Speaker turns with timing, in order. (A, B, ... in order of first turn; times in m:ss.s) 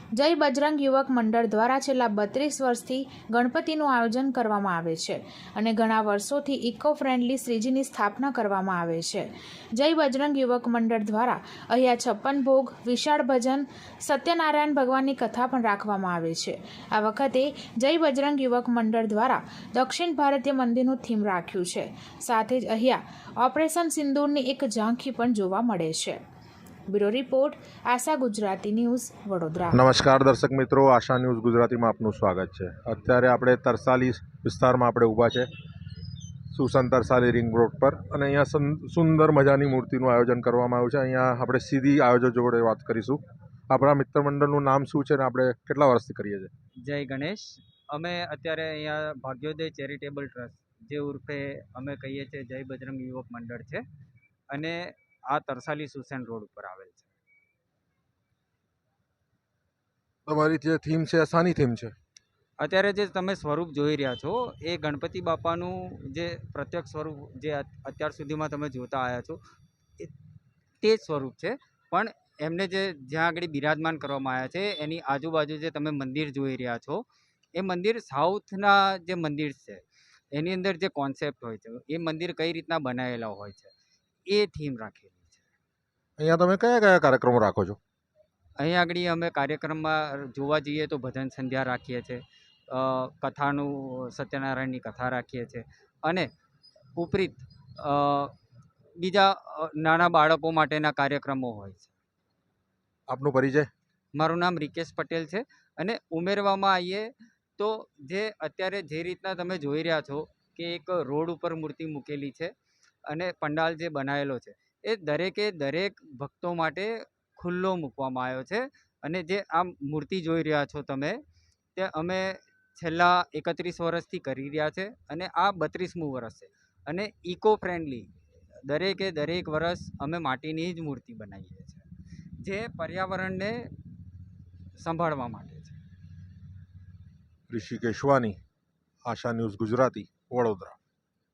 0:00.2-0:26.2 A
0:26.9-0:29.8 A
0:29.7-0:35.5 B
0:36.5-0:46.5 B
0:46.8-0:53.8 C
0:54.5-0:57.1 C
1:00.2-1:01.9 B
1:02.6-1:09.4 C
1:10.8-1:23.7 C
1:24.3-1:25.4 C
1:26.2-1:27.8 B
1:28.6-1:36.3 C
1:37.0-1:38.3 C
1:39.0-1:41.9 C
1:43.1-1:43.7 B
1:44.2-1:52.5 C
1:53.1-2:01.2 C
2:01.8-2:08.1 C
2:08.7-2:11.8 C
2:12.4-2:13.7 C
2:14.8-2:15.8 C
2:17.5-2:18.4 B
2:19.0-2:20.8 B